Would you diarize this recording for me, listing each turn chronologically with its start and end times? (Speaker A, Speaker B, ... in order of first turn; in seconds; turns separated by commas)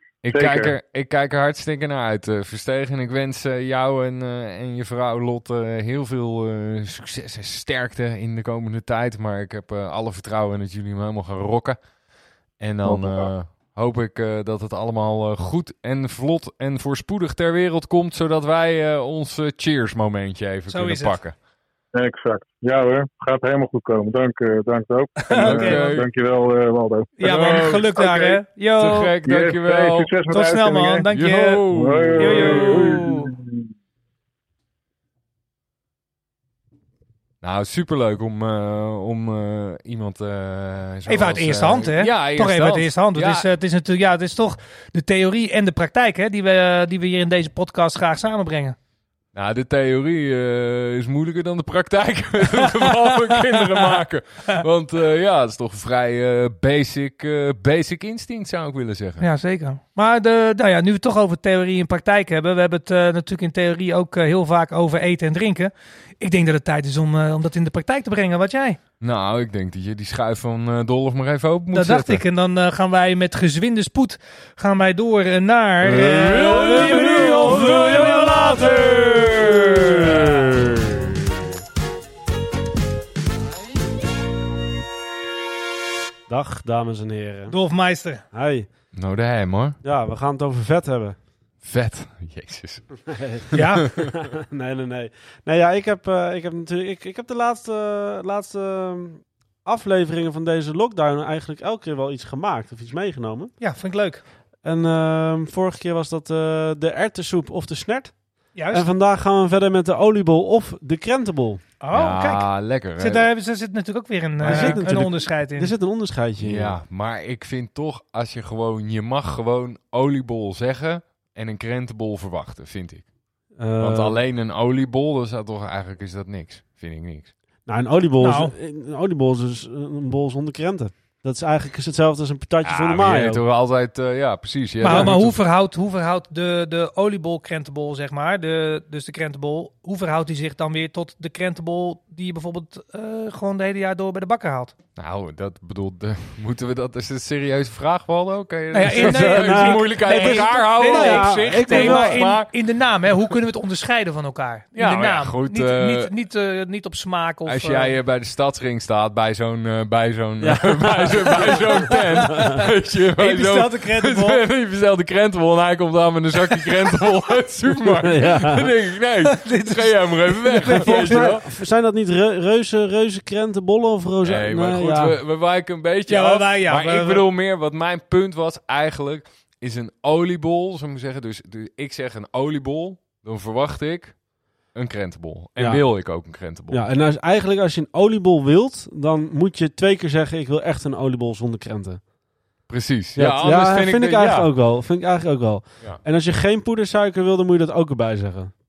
Speaker A: 0.2-11.8, Speaker B: 0.3-0.7, Speaker A: 12.6-21.3, Speaker B: 12.8-13.3, Speaker C: 20.7-21.2, Speaker B: 21.9-28.4, Speaker C: 25.2-26.0, Speaker A: 25.4-26.1, Speaker C: 27.2-29.1, Speaker A: 27.2-28.0, Speaker A: 28.8-30.1, Speaker B: 29.2-31.1, Speaker C: 30.3-31.6, Speaker A: 31.1-33.1, Speaker B: 31.7-33.5, Speaker C: 32.1-33.3, Speaker A: 37.4-43.5, Speaker C: 41.1-48.8, Speaker A: 49.3-59.2, Speaker C: 59.2-68.8, Speaker A: 69.0-72.2, Speaker C: 71.7-80.4, Speaker A: 75.8-80.4, Speaker D: 80.4-81.0, Speaker D: 86.3-87.6, Speaker C: 87.5-88.2, Speaker D: 88.2-88.7, Speaker A: 88.9-89.8, Speaker D: 89.8-91.2, Speaker A: 91.6-93.2, Speaker D: 93.1-103.5, Speaker C: 93.5-93.8, Speaker C: 103.6-104.2, Speaker D: 104.6-111.7, Speaker C: 108.5-108.9, Speaker C: 111.8-115.7, Speaker A: 111.9-113.3, Speaker D: 114.4-116.8, Speaker A: 114.4-114.8, Speaker A: 116.4-123.1, Speaker D: 123.5-124.2, Speaker A: 123.8-127.3, Speaker D: 127.7-133.4, Speaker C: 128.2-128.5, Speaker A: 132.6-135.4, Speaker D: 134.8-135.2, Speaker C: 134.8-144.7, Speaker A: 144.9-152.5, Speaker C: 148.7-157.9, Speaker D: 149.0-152.4, Speaker A: 154.7-156.1, Speaker A: 157.4-171.5, Speaker D: 160.4-162.6, Speaker C: 163.2-164.4, Speaker D: 168.0-168.7, Speaker C: 169.3-171.3, Speaker D: 170.7-175.2, Speaker A: 174.2-186.8, Speaker C: 176.1-177.2, Speaker D: 185.6-192.1, Speaker A: 192.7-194.5, Speaker D: 193.2-198.5